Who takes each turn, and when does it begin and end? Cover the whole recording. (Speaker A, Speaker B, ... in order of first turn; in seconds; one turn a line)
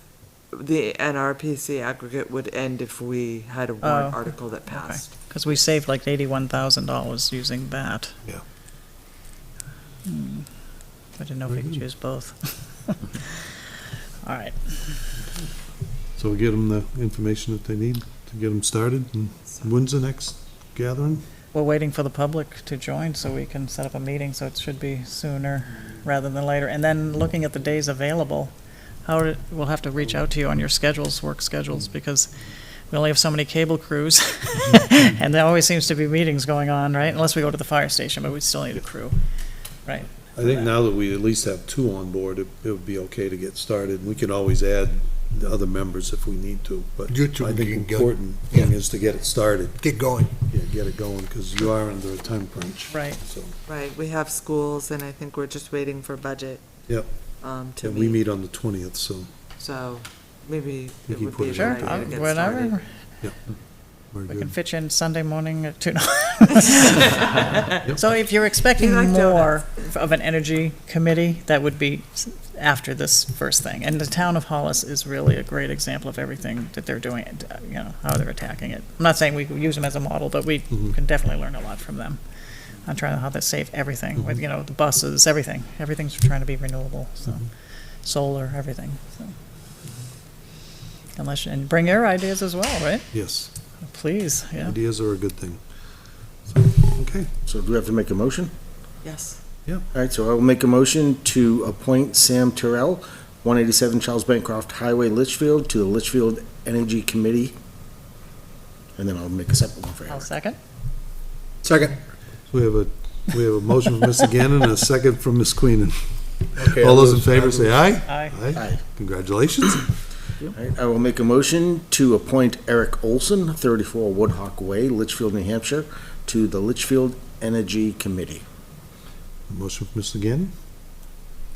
Speaker A: 0.5-5.2
Speaker B: 3.8-8.2
Speaker B: 10.1-10.5
Speaker B: 11.2-13.3
Speaker C: 11.5-11.8
Speaker B: 14.2-14.9
Speaker C: 16.2-21.2
Speaker B: 21.5-28.5
Speaker B: 29.1-32.3
Speaker B: 32.9-39.2
Speaker B: 39.9-40.1
Speaker C: 40.3-49.9
Speaker D: 47.1-48.7
Speaker D: 49.8-50.3
Speaker C: 50.4-53.5
Speaker B: 52.9-53.2
Speaker A: 53.7-56.6
Speaker A: 57.4-58.2
Speaker C: 57.8-59.3
Speaker A: 59.6-62.9
Speaker C: 61.1-62.4
Speaker B: 61.6-62.9
Speaker C: 64.1-64.5
Speaker B: 64.3-82.2
Speaker A: 67.2-67.4
Speaker A: 68.8-69.7
Speaker B: 82.8-87.5
Speaker B: 88.0-89.3
Speaker B: 91.2-93.1
Speaker C: 93.1-93.5
Speaker B: 93.8-94.8
Speaker C: 94.6-95.6
Speaker C: 96.5-97.3
Speaker E: 97.5-98.5
Speaker A: 99.0-99.4
Speaker E: 99.9-107.5
Speaker E: 109.0-110.3
Speaker B: 110.1-110.6
Speaker D: 111.6-112.0
Speaker C: 112.5-116.0
Speaker D: 116.6-117.8
Speaker C: 116.6-119.9
Speaker B: 118.1-118.3
Speaker E: 118.5-118.8
Speaker E: 120.5-128.4
Speaker C: 129.5-130.5